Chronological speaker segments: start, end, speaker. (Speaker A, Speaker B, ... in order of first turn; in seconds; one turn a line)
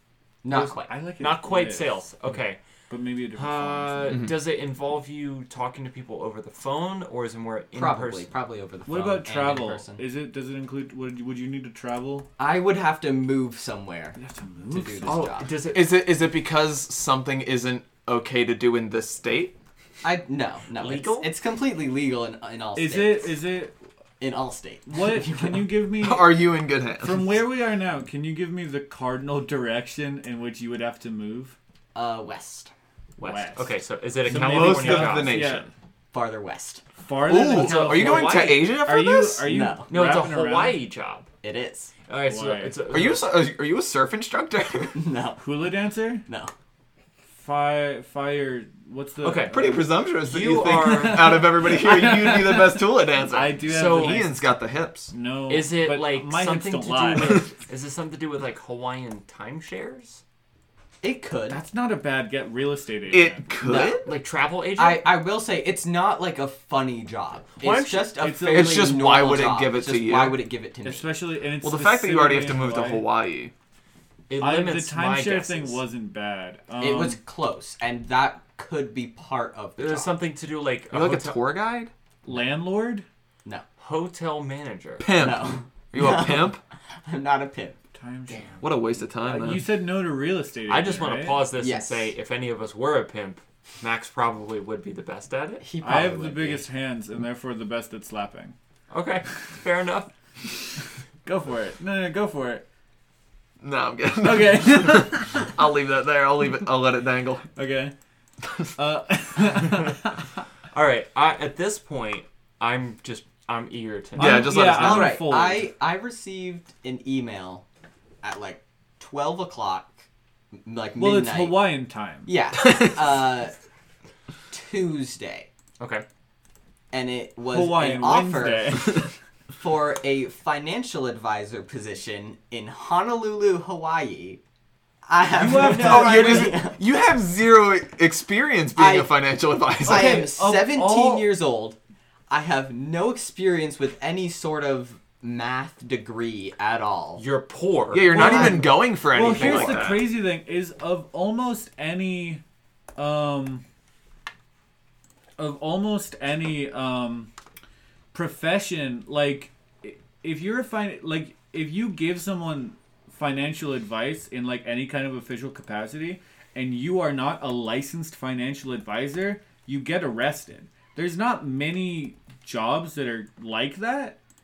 Speaker A: 0.4-0.9
Speaker B: 0.5-2.0
Speaker C: 1.2-2.6
Speaker B: 2.9-4.2
Speaker C: 3.3-8.3
Speaker D: 4.1-4.3
Speaker A: 7.7-10.0
Speaker B: 8.8-12.3
Speaker A: 12.4-14.2
Speaker B: 14.2-15.2
Speaker A: 14.7-15.5
Speaker C: 15.1-15.9
Speaker D: 15.7-19.6
Speaker A: 20.0-23.4
Speaker C: 20.8-21.3
Speaker B: 22.7-23.7
Speaker A: 24.2-25.7
Speaker B: 24.9-26.3
Speaker D: 26.0-27.2
Speaker B: 27.0-31.6
Speaker A: 31.9-32.7
Speaker C: 33.2-35.5
Speaker B: 33.2-33.7
Speaker B: 34.2-35.7
Speaker D: 34.2-35.7
Speaker A: 36.1-36.8
Speaker B: 37.0-40.8
Speaker D: 37.2-39.5
Speaker C: 37.5-38.6
Speaker A: 39.4-39.9
Speaker C: 39.9-41.3
Speaker A: 41.4-41.9
Speaker C: 42.1-43.4
Speaker B: 42.3-42.8
Speaker D: 42.9-45.0
Speaker A: 44.9-45.4
Speaker B: 45.4-46.2
Speaker A: 46.2-46.5
Speaker B: 47.3-49.9
Speaker C: 49.2-51.4
Speaker D: 49.5-55.1
Speaker B: 50.6-54.4
Speaker C: 53.6-54.2
Speaker B: 55.1-57.4
Speaker C: 55.5-60.2
Speaker A: 61.0-61.6
Speaker B: 61.5-63.5
Speaker D: 63.1-64.1
Speaker A: 63.6-64.1
Speaker C: 64.0-65.2
Speaker A: 64.8-71.1
Speaker C: 67.6-68.2
Speaker B: 68.2-69.0
Speaker D: 68.5-70.4
Speaker B: 70.8-73.0
Speaker D: 71.6-73.5
Speaker C: 74.3-75.8
Speaker B: 74.4-77.2
Speaker A: 76.8-80.2
Speaker C: 79.8-81.4
Speaker D: 80.9-81.9
Speaker B: 82.2-83.0
Speaker C: 83.8-85.1
Speaker D: 85.0-86.6
Speaker A: 85.2-87.8
Speaker B: 87.9-88.6
Speaker C: 88.3-88.6
Speaker D: 88.6-89.7
Speaker B: 89.2-91.4
Speaker C: 90.7-95.6
Speaker A: 91.6-92.1
Speaker A: 95.6-96.7
Speaker B: 95.8-98.5
Speaker C: 98.9-100.1
Speaker B: 101.2-102.6
Speaker D: 103.6-107.5
Speaker B: 104.2-105.5
Speaker B: 107.5-107.9
Speaker B: 108.8-110.2
Speaker C: 110.7-114.6
Speaker D: 114.2-115.2
Speaker B: 114.2-115.7
Speaker A: 114.6-117.6
Speaker A: 118.2-120.0
Speaker A: 120.6-121.7
Speaker B: 121.0-122.3
Speaker A: 122.2-123.5
Speaker A: 124.5-125.5
Speaker C: 125.8-126.0
Speaker A: 126.9-129.0
Speaker B: 127.5-129.1
Speaker A: 129.6-134.4
Speaker A: 135.1-136.8
Speaker B: 135.3-136.5
Speaker D: 135.5-140.3
Speaker A: 138.8-139.1
Speaker A: 139.8-141.8
Speaker B: 139.8-141.4
Speaker A: 142.3-147.2
Speaker C: 147.2-148.7
Speaker D: 147.9-150.1
Speaker A: 148.1-148.6
Speaker B: 148.1-152.4
Speaker A: 149.2-149.7
Speaker C: 149.3-149.8
Speaker B: 152.9-153.6
Speaker B: 155.4-157.3
Speaker B: 158.1-174.2